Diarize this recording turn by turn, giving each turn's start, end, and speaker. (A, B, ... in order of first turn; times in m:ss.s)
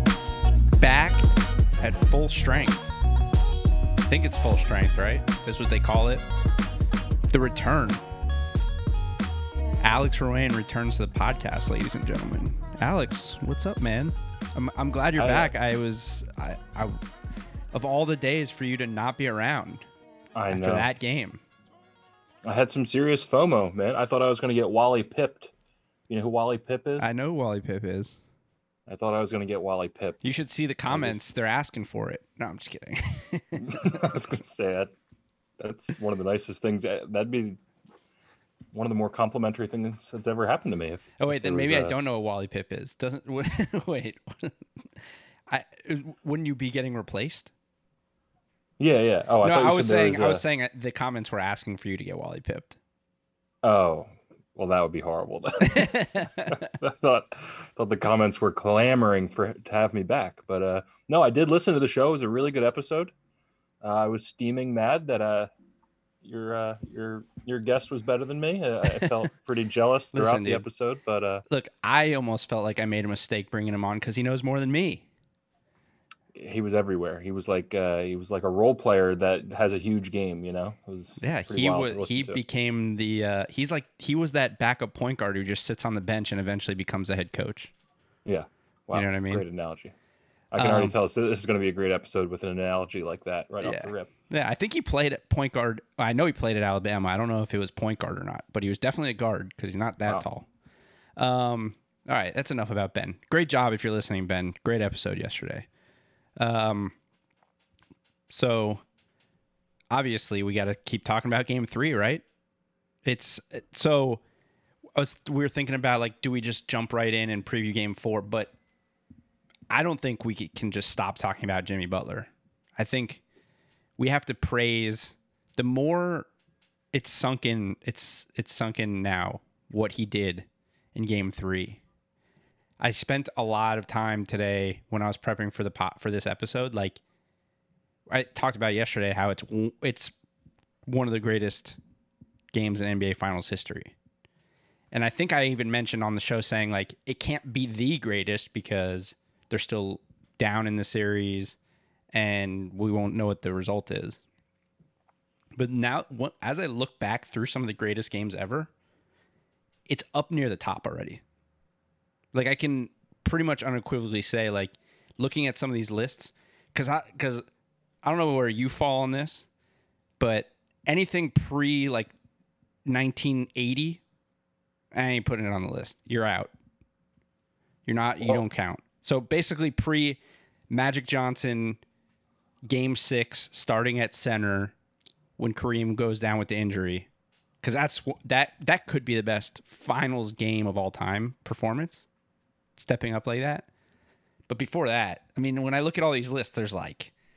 0:00.8-0:03.0 A
0:04.1-0:06.2 A
0:07.3-0:08.0 A
0:09.8-0:17.0 A
0:15.2-0:15.5 B
0:17.7-0:19.8 A
0:20.3-0:20.9 B
0:20.5-0:21.4 A
0:22.4-0:25.5 B
0:26.1-0:27.1 B
0:27.0-0:28.2 A
0:28.9-0:30.3 B
0:30.2-0:34.3 A
0:30.9-0:31.2 B
0:33.6-0:34.9 B
0:35.6-0:37.6 B
0:38.7-0:41.9 B
0:41.2-0:47.5 A
0:48.8-0:50.4 B
0:49.4-0:52.8 A
0:53.6-1:03.1 B
0:55.6-0:56.6 A
1:03.8-1:05.5 B
1:06.2-1:11.4 B
1:10.1-1:10.7 A
1:11.5-1:15.0 A
1:16.3-1:22.4 B
1:21.2-1:27.7 A
1:28.2-1:29.9 B
1:28.9-1:29.4 A
1:30.5-1:34.1 B
1:30.6-1:30.9 A
1:33.6-1:40.4 A
1:41.2-1:45.7 A
1:46.4-1:46.9 A
1:48.3-1:48.8 A
1:49.9-1:52.2 A
1:53.0-1:54.2 A
1:55.0-1:58.5 A
1:59.7-2:03.2 A
2:04.0-2:06.3 A
2:06.9-2:11.8 A
2:12.8-2:17.0 A
2:18.1-2:20.1 A
2:20.8-2:21.8 A
2:22.5-2:23.9 A
2:24.9-2:31.6 A
2:32.1-2:34.2 A
2:35.6-2:38.7 A
2:39.9-2:41.2 A
2:42.3-2:47.4 A
2:48.0-2:49.5 A
2:50.2-2:52.1 A
2:52.8-2:54.0 A
2:54.9-2:56.5 A
2:57.8-3:00.2 A
3:00.7-3:01.8 A
3:02.6-3:04.7 A
3:05.4-3:07.1 A
3:07.6-3:12.0 A
3:12.8-3:13.7 A
3:14.5-3:17.1 A